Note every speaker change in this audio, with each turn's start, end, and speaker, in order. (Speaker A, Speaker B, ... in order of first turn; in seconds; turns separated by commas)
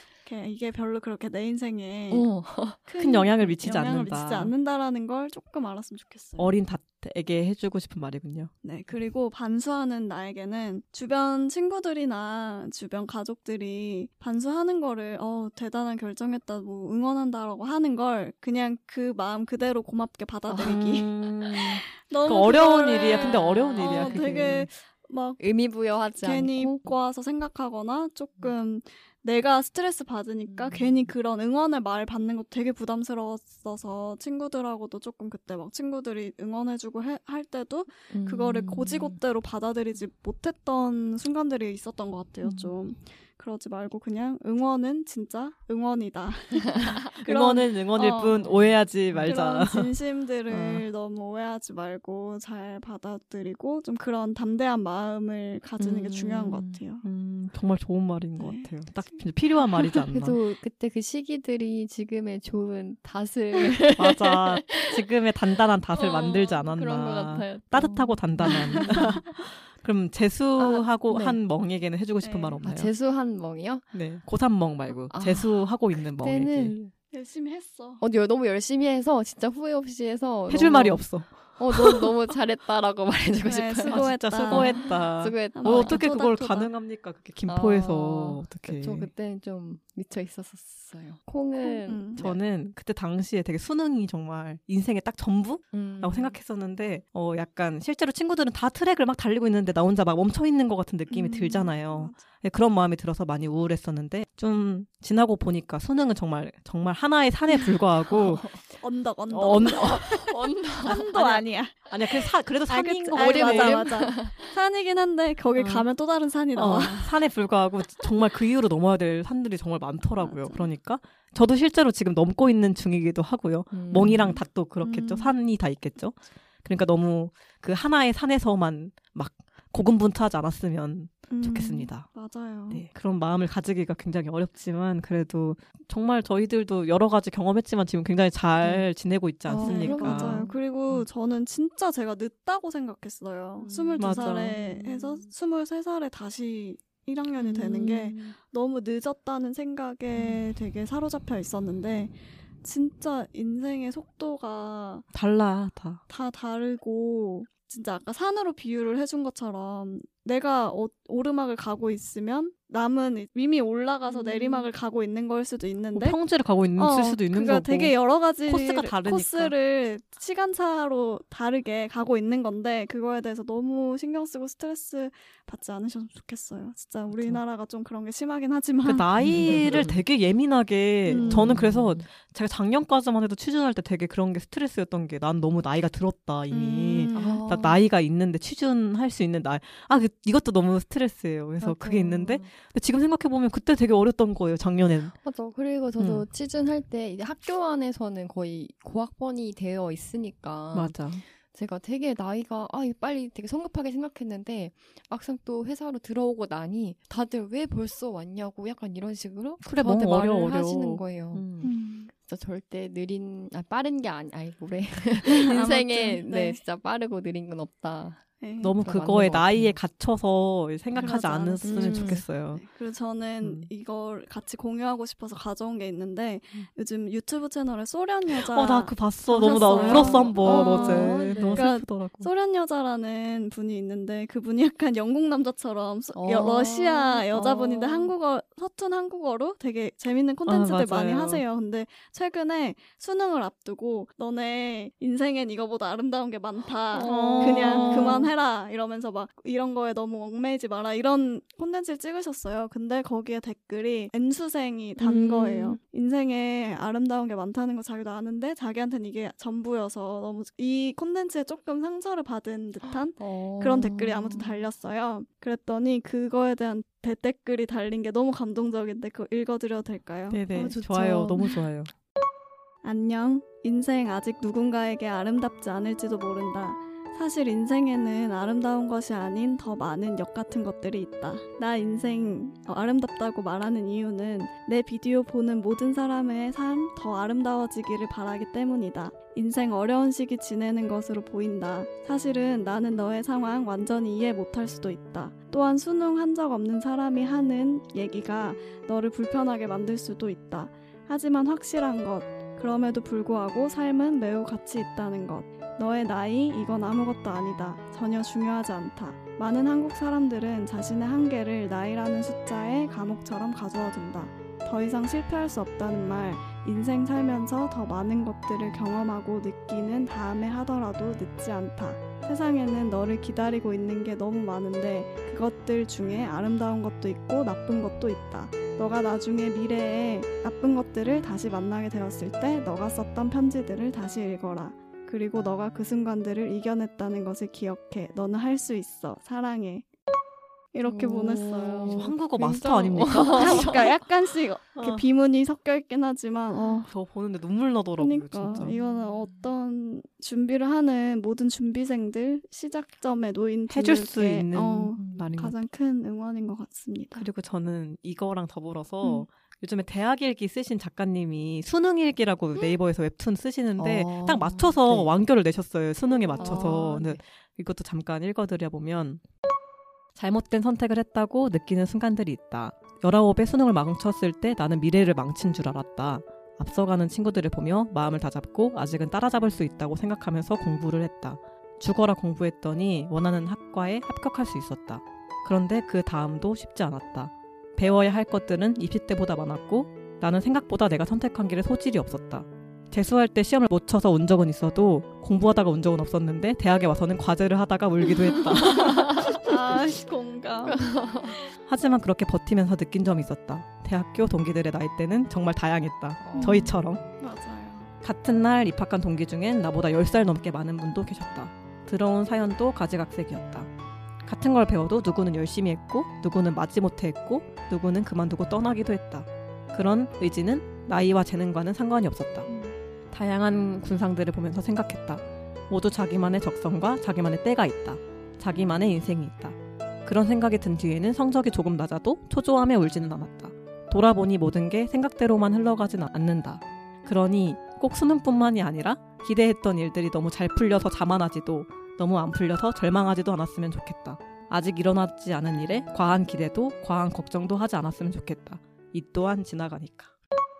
Speaker A: 0.2-6.5, Speaker B: 2.1-2.9, Speaker C: 3.0-4.5, Speaker C: 6.4-8.5, Speaker A: 8.6-25.4, Speaker C: 20.5-24.7, Speaker B: 23.1-24.6, Speaker B: 25.4-26.8, Speaker A: 26.2-57.0, Speaker B: 30.5-31.1, Speaker B: 38.1-39.2, Speaker B: 42.4-42.7, Speaker B: 46.5-47.1, Speaker C: 47.2-49.9, Speaker C: 50.5-50.9, Speaker B: 55.8-56.8, Speaker C: 57.0-60.4, Speaker A: 58.4-59.2, Speaker B: 60.1-65.0, Speaker C: 64.0-72.9, Speaker B: 65.9-69.3, Speaker A: 68.5-69.1, Speaker B: 70.6-71.4, Speaker A: 72.2-72.6, Speaker B: 72.6-73.8, Speaker C: 73.9-76.7, Speaker B: 75.1-76.9, Speaker A: 77.1-78.0, Speaker B: 78.0-86.1, Speaker C: 80.5-82.1, Speaker A: 83.4-84.9, Speaker C: 83.8-89.1, Speaker A: 85.5-86.7, Speaker B: 87.5-92.4, Speaker A: 91.6-92.2, Speaker C: 92.2-108.5, Speaker B: 95.7-96.4, Speaker A: 101.1-102.2, Speaker B: 108.1-108.6, Speaker A: 108.7-111.9, Speaker C: 109.3-110.2, Speaker B: 109.5-111.0, Speaker C: 110.8-113.9, Speaker A: 112.7-117.1, Speaker B: 113.1-114.5, Speaker C: 115.6-115.9, Speaker C: 116.5-132.1, Speaker A: 120.2-120.7, Speaker B: 123.7-124.4, Speaker A: 124.8-125.3, Speaker A: 131.3-132.8, Speaker C: 132.7-141.0, Speaker B: 139.5-140.6, Speaker A: 139.6-155.1, Speaker B: 143.6-145.3, Speaker C: 144.0-144.6, Speaker B: 147.4-148.3, Speaker C: 155.1-156.0, Speaker A: 156.1-166.2, Speaker B: 164.1-164.7, Speaker C: 165.9-167.9, Speaker A: 166.8-179.8, Speaker C: 168.5-169.5, Speaker C: 177.1-177.4, Speaker C: 178.8-195.1, Speaker B: 179.2-180.0, Speaker B: 181.1-182.1, Speaker A: 181.1-181.5, Speaker A: 186.5-187.4, Speaker B: 187.1-187.8, Speaker B: 191.6-192.5, Speaker B: 195.2-211.5, Speaker C: 196.0-196.2, Speaker C: 200.7-201.2, Speaker C: 209.6-211.7, Speaker A: 211.6-212.1, Speaker B: 212.1-218.2, Speaker A: 215.2-216.6, Speaker A: 218.4-218.7, Speaker C: 218.6-222.6, Speaker B: 218.8-219.8, Speaker A: 220.9-270.7, Speaker B: 221.6-222.2, Speaker C: 223.4-223.7, Speaker C: 228.3-232.3, Speaker B: 229.3-231.7, Speaker B: 236.1-238.1, Speaker C: 240.5-241.4, Speaker B: 246.9-248.3, Speaker C: 247.0-248.3, Speaker B: 255.0-255.8, Speaker B: 262.8-264.7, Speaker C: 270.3-271.9, Speaker B: 270.5-271.6, Speaker A: 272.8-339.9, Speaker A: 340.7-342.1, Speaker B: 340.8-343.8, Speaker C: 341.8-343.9, Speaker A: 343.3-346.9, Speaker C: 344.8-345.0, Speaker B: 346.5-346.8, Speaker C: 346.9-348.7, Speaker A: 348.0-357.3, Speaker C: 353.7-355.5, Speaker B: 354.9-355.3, Speaker C: 357.1-369.2, Speaker B: 363.8-365.1, Speaker A: 366.2-366.8, Speaker B: 366.4-367.2, Speaker C: 370.1-399.3, Speaker A: 398.3-401.3, Speaker B: 398.6-399.3, Speaker B: 400.6-401.4, Speaker C: 401.7-407.0, Speaker B: 406.2-406.8, Speaker A: 406.3-407.9, Speaker C: 408.0-413.7, Speaker C: 414.2-422.5, Speaker C: 423.1-450.1